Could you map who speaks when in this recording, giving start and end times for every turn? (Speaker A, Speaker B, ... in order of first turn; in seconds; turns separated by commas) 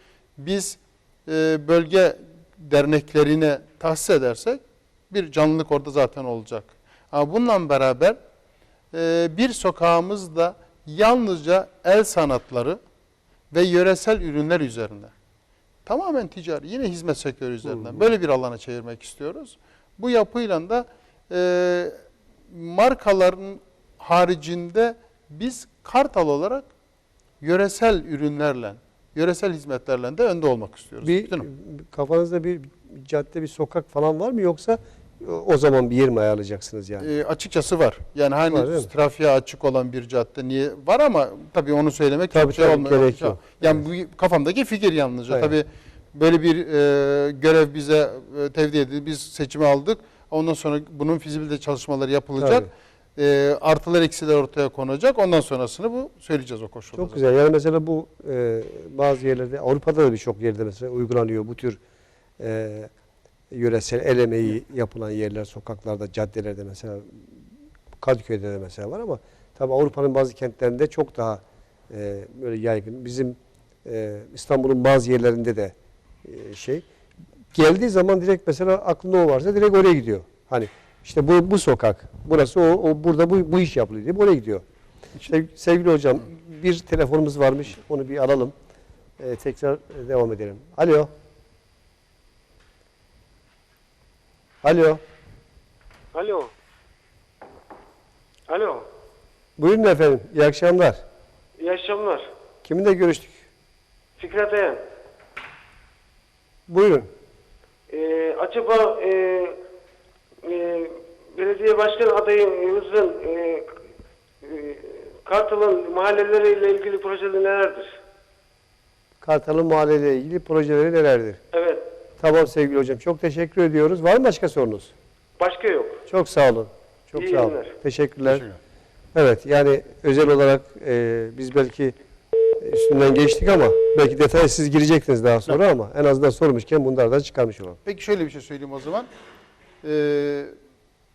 Speaker A: 0.4-8.2, Speaker A: 8.9-12.8, Speaker A: 13.5-15.1, Speaker A: 15.9-21.9, Speaker A: 22.5-26.7, Speaker A: 27.4-31.5, Speaker B: 31.0-37.1, Speaker A: 37.0-57.2, Speaker B: 38.5-38.9, Speaker B: 42.3-43.8, Speaker B: 45.3-45.5, Speaker B: 52.4-52.7, Speaker B: 56.9-61.8, Speaker B: 62.4-62.9, Speaker B: 63.5-67.4, Speaker B: 68.0-76.8, Speaker B: 77.5-84.6, Speaker B: 85.2-88.5, Speaker B: 89.2-91.1, Speaker B: 94.6-95.0, Speaker C: 96.1-96.5, Speaker C: 98.5-98.9, Speaker B: 99.6-101.0, Speaker C: 101.6-102.3, Speaker B: 102.6-103.4, Speaker C: 104.2-104.8, Speaker B: 106.7-107.1, Speaker C: 107.9-109.6, Speaker C: 110.4-113.8, Speaker C: 114.4-118.0, Speaker B: 119.2-121.4, Speaker C: 121.5-121.8, Speaker B: 122.2-124.9, Speaker C: 125.4-126.0, Speaker B: 126.1-128.4, Speaker C: 127.2-127.7, Speaker A: 128.2-128.6, Speaker B: 129.1-131.9, Speaker B: 132.6-137.8, Speaker A: 137.8-139.1, Speaker A: 139.8-140.5